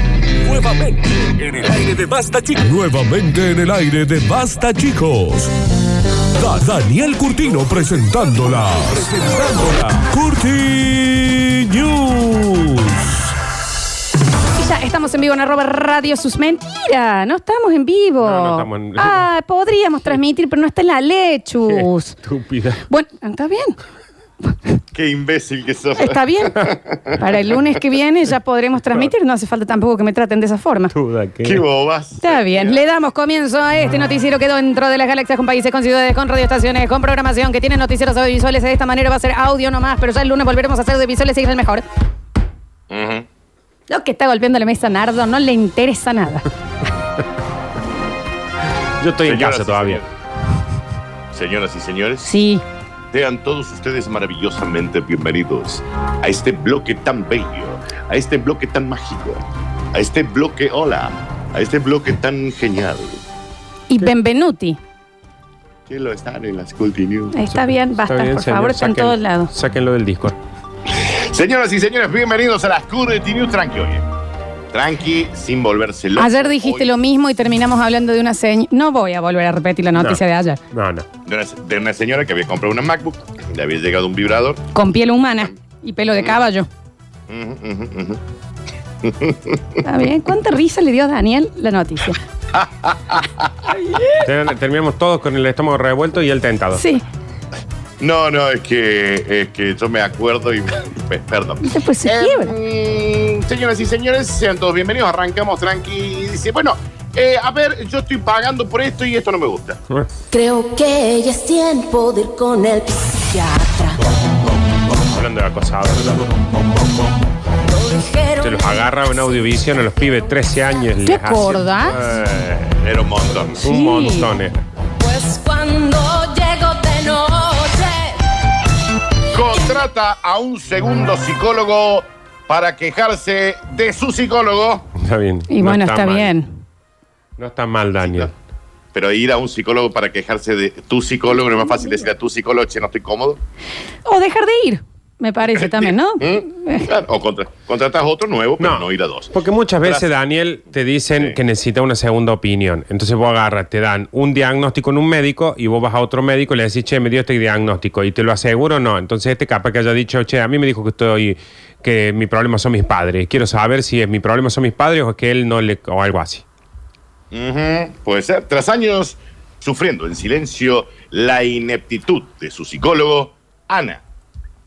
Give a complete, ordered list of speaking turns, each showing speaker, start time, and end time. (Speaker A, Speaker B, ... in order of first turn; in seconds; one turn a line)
Speaker A: 0.4-5.5
Speaker A: 6.4-13.2
Speaker B: 14.5-22.2
Speaker C: 18.2-19.2
Speaker C: 21.6-22.8
Speaker B: 22.9-23.8
Speaker D: 24.9-27.0
Speaker B: 26.0-30.9
Speaker C: 30.9-31.6
Speaker D: 31.4-32.9
Speaker B: 32.2-41.8
Speaker D: 43.0-43.2
Speaker B: 43.9-46.5
Speaker C: 49.0-50.0
Speaker D: 49.2-50.0
Speaker D: 51.3-52.2
Speaker B: 52.2-52.6
Speaker D: 53.1-59.4
Speaker D: 59.9-63.2
Speaker B: 63.9-64.8
Speaker D: 65.9-67.3
Speaker B: 67.3-69.5
Speaker C: 67.5-70.4
Speaker D: 70.9-74.0
Speaker D: 74.7-76.9
Speaker B: 76.2-80.6
Speaker C: 80.7-81.0
Speaker D: 81.2-84.6
Speaker B: 84.7-86.7
Speaker D: 87.3-88.2
Speaker D: 89.1-89.6
Speaker B: 89.8-92.2
Speaker D: 92.6-92.9
Speaker B: 93.7-94.2
Speaker C: 94.2-96.8
Speaker B: 96.7-97.0
Speaker D: 98.0-109.8
Speaker B: 101.6-102.5
Speaker E: 110.3-113.9
Speaker C: 115.1-116.2
Speaker E: 117.7-118.4
Speaker C: 118.4-122.8
Speaker B: 121.0-122.0
Speaker D: 122.8-123.6
Speaker C: 123.6-124.6
Speaker B: 123.6-124.3
Speaker E: 125.0-128.1
Speaker D: 129.3-134.8
Speaker C: 135.0-136.3
Speaker B: 135.5-136.5
Speaker C: 137.4-138.3
Speaker D: 138.9-143.4
Speaker B: 144.0-146.9
Speaker D: 145.5-150.1
Speaker C: 148.6-166.4
Speaker D: 167.3-174.0